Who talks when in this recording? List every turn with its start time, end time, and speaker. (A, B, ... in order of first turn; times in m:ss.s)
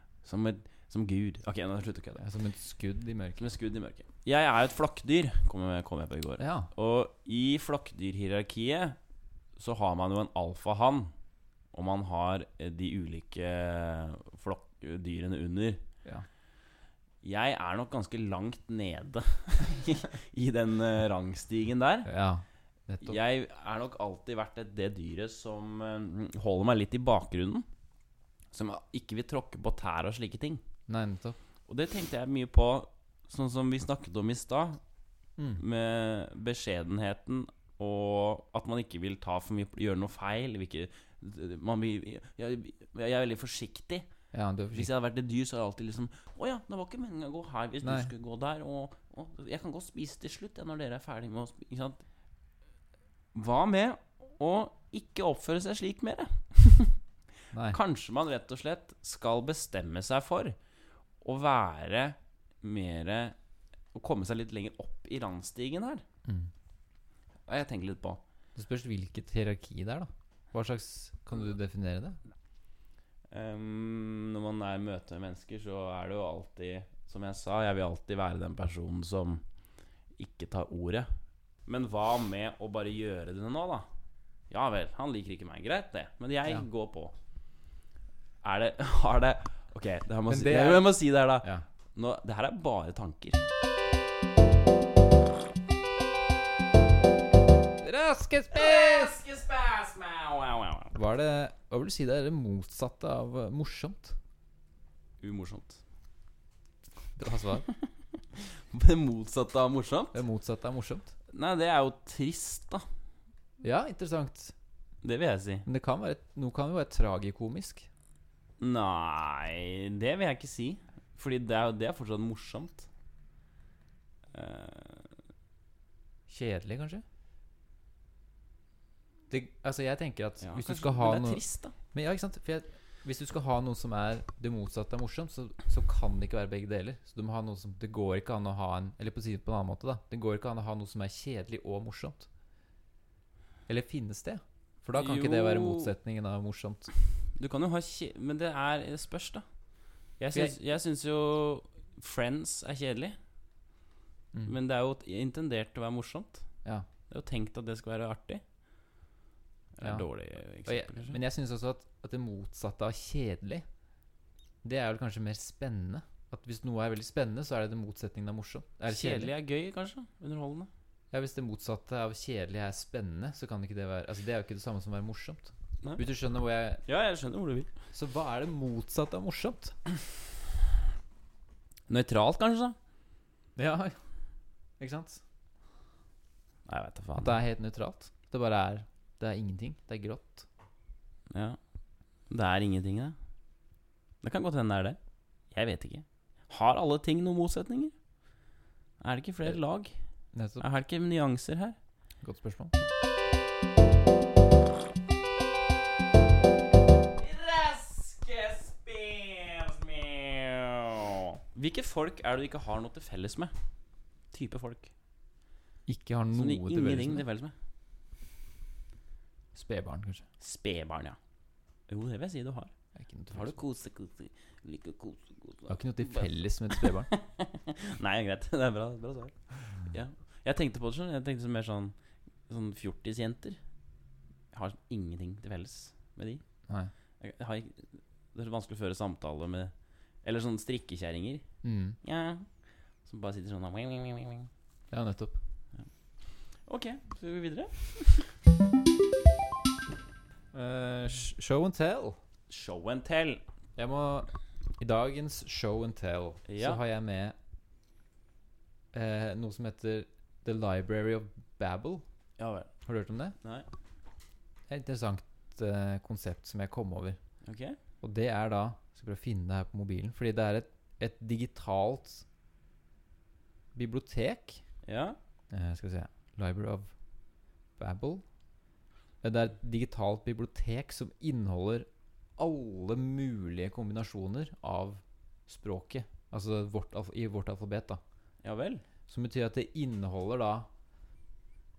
0:00.2-0:02.2 A
0:02.2-0:03.5 B
0:03.4-0:09.0 A
0:06.4-0:06.7 B
0:09.6-0:11.1 A
0:11.7-0:15.8 A
0:17.2-0:22.1 A
0:22.0-0:23.2 B
0:23.0-0:27.6 A
0:28.5-0:30.6 A
0:30.9-0:31.4 B
0:31.7-0:34.8 A
0:35.4-0:35.6 B
0:35.6-0:44.1 A
0:44.3-0:44.9 B
0:44.7-0:52.0 A
0:47.8-0:48.1 B
0:53.3-0:57.0 A
0:57.5-0:57.8 B
0:57.6-1:00.6 A
1:01.2-1:03.4 A
1:03.9-1:06.0 A
1:06.2-1:06.5 B
1:07.5-1:08.2 A
1:08.6-1:12.2 B
1:13.3-1:19.4 A
1:20.2-1:21.1 A
1:21.6-1:23.9 A
1:24.5-1:27.1 A
1:28.4-1:33.4 A
1:30.3-1:31.6 B
1:37.8-1:39.2 B
1:38.5-1:40.9 A
1:40.9-1:44.2 B
1:45.2-1:45.8 A
1:47.2-1:47.7 B
1:47.7-1:50.2 A
1:50.1-1:51.1 B
1:51.3-1:52.8 A
1:53.6-1:54.5 B
1:55.0-1:55.6 A
1:55.6-1:57.9 B
1:58.6-2:02.9 A
2:04.3-2:05.1 A
2:06.3-2:07.0 B
2:09.3-2:22.3 B
2:10.4-2:11.7 A
2:23.7-2:26.9 B
2:25.0-2:25.9 A
2:27.2-2:29.4 A
2:30.2-2:33.2 A
2:34.4-2:36.5 A
2:37.1-2:38.4 A
2:39.8-2:41.2 A
2:39.8-2:40.1 B
2:40.6-2:43.6 B
2:44.6-2:49.3 B
2:48.9-2:50.7 A
2:51.1-2:56.8 B
2:56.8-2:57.7 A
2:57.9-2:59.8 B
3:01.9-3:02.8 A
3:03.6-3:04.0 B
3:04.8-3:05.2 B
3:06.7-3:07.4 A
3:07.2-3:10.5 B
3:11.3-3:11.6 A
3:12.3-3:13.2 A
3:14.2-3:15.0 A
3:15.5-3:17.9 A
3:19.0-3:19.9 A
3:20.3-3:20.6 B
3:20.6-3:21.8 A
3:22.2-3:22.7 B
3:27.2-3:33.5 A
3:34.3-3:34.9 A
3:35.9-3:37.2 B
3:36.3-3:37.5 A
3:39.5-3:40.2 B
3:40.4-3:41.2 A
3:41.9-3:42.7 A
3:43.0-3:43.6 B
3:43.3-3:51.9 A
3:45.7-3:47.1 B
3:52.5-3:53.6 A
3:54.5-3:56.4 A
3:57.2-3:59.7 A
4:00.2-4:01.4 A
4:01.6-4:02.0 B
4:02.0-4:02.5 A
4:03.0-4:04.5 A
4:04.9-4:05.4 B
4:06.6-4:08.3 A
4:10.5-4:12.2 B
4:12.5-4:13.4 A
4:13.8-4:17.3 B
4:16.5-4:16.8 A
4:18.9-4:22.0 B
4:22.4-4:22.7 A
4:22.8-4:23.4 B
4:23.4-4:23.7 A
4:24.7-4:27.2 B
4:27.4-4:27.8 A
4:28.0-4:32.2 B
4:33.7-4:34.6 B
4:34.8-4:35.2 A
4:35.5-4:36.9 B
4:37.8-4:38.2 B
4:39.2-4:48.0 B
4:48.4-4:48.8 A
4:49.1-4:50.7 B